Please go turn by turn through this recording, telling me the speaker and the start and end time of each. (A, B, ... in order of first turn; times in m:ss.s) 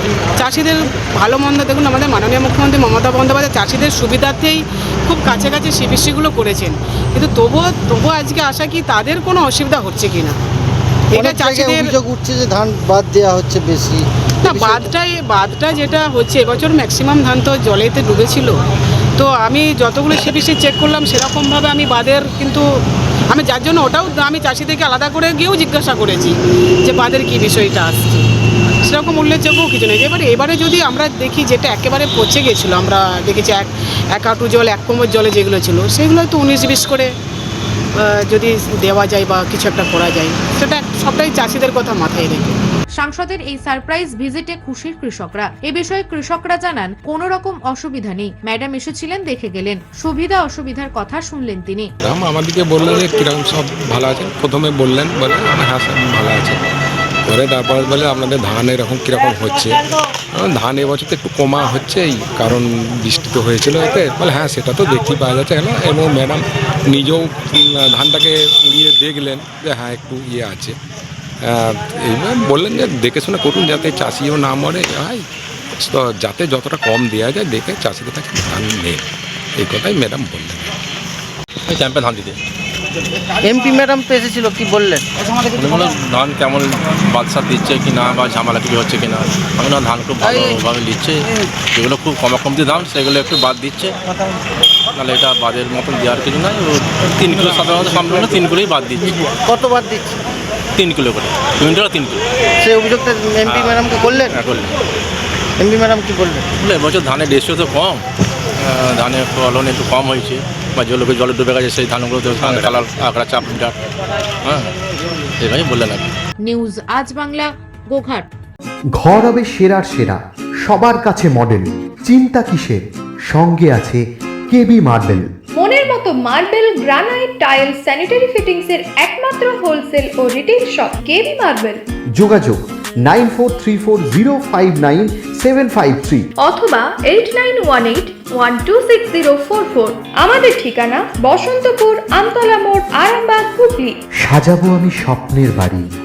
0:00.4-0:10.4 A
0:11.1-0:12.0 A
0:11.2-0:14.9 B
0:14.4-0:18.6 A
0:19.2-0:28.3 A
0:28.8-0:37.2 A
0:37.9-0:42.7 A
0:43.0-0:51.9 C
0:52.0-0:56.6 D
0:57.3-0:59.8 D
1:00.4-1:10.8 D
1:11.4-1:15.2 D
1:15.8-1:19.0 D
1:19.6-1:20.6 D
1:21.7-1:22.4 E
1:23.4-1:25.1 B
1:25.6-1:34.0 E
1:30.3-1:30.6 B
1:35.0-1:39.2 E
1:39.5-1:40.2 B
1:40.8-1:42.2 E
1:42.6-1:44.4 B
1:43.4-1:44.7 E
1:45.6-1:46.5 B
1:46.6-1:48.0 E
1:48.6-1:53.8 E
1:52.4-1:52.8 D
1:54.4-1:54.7 E
1:55.4-1:56.1 E
1:56.4-1:58.3 C
1:59.0-2:02.8 F
2:03.3-2:05.3 F
2:05.6-2:11.8 G
2:12.2-2:16.2 F
2:16.4-2:24.0 G
2:24.2-2:25.8 F